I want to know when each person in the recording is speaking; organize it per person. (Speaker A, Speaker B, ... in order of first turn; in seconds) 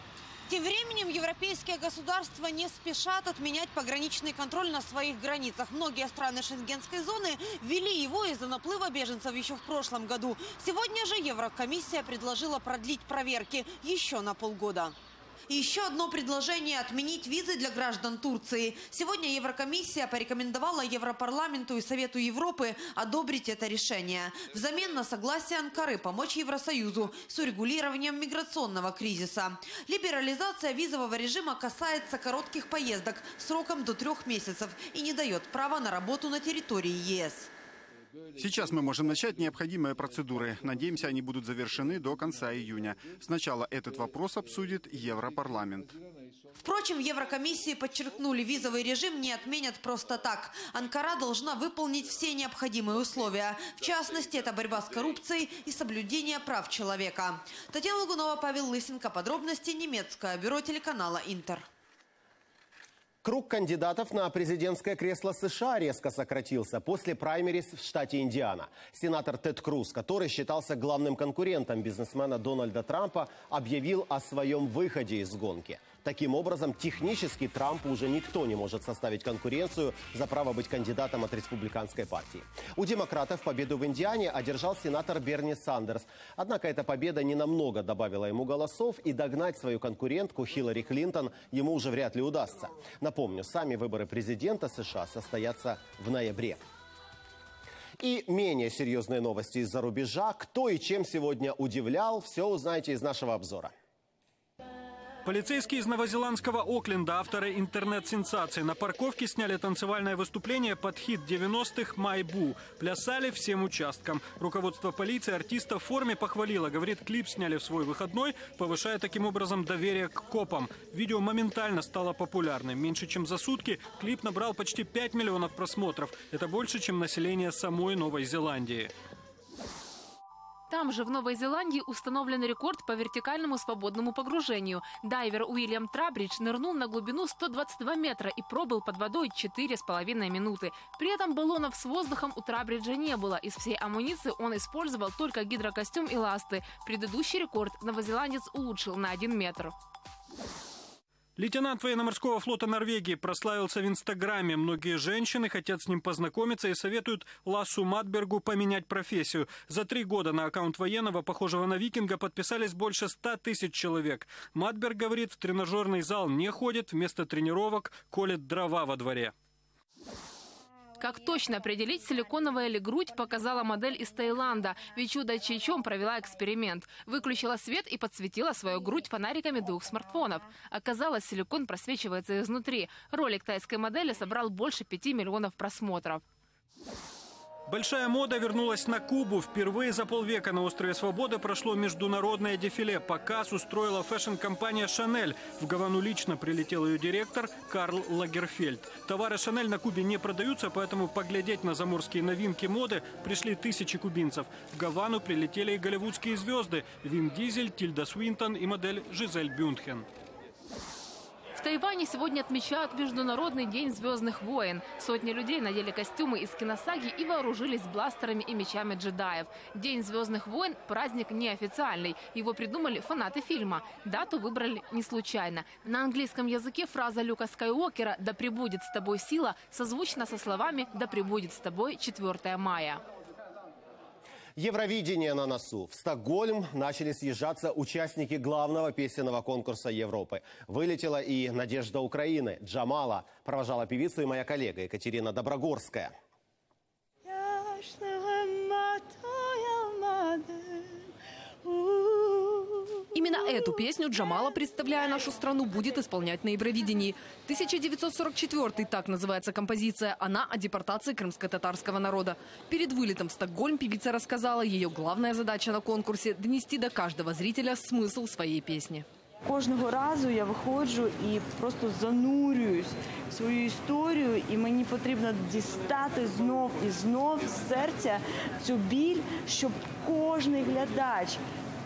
Speaker A: 0.5-14.9, 15.5-37.5, 46.6-61.6
Speaker B: 38.4-45.9
Speaker C: 63.2-96.6, 98.0-103.7, 234.6-246.1
Speaker D: 105.2-128.9, 151.4-169.3, 187.7-210.1
Speaker E: 130.7-149.7, 171.0-186.2, 211.6-233.0
Speaker F: 247.3-250.9, 251.7-252.6, 269.4-281.4
Speaker G: 253.1-269.0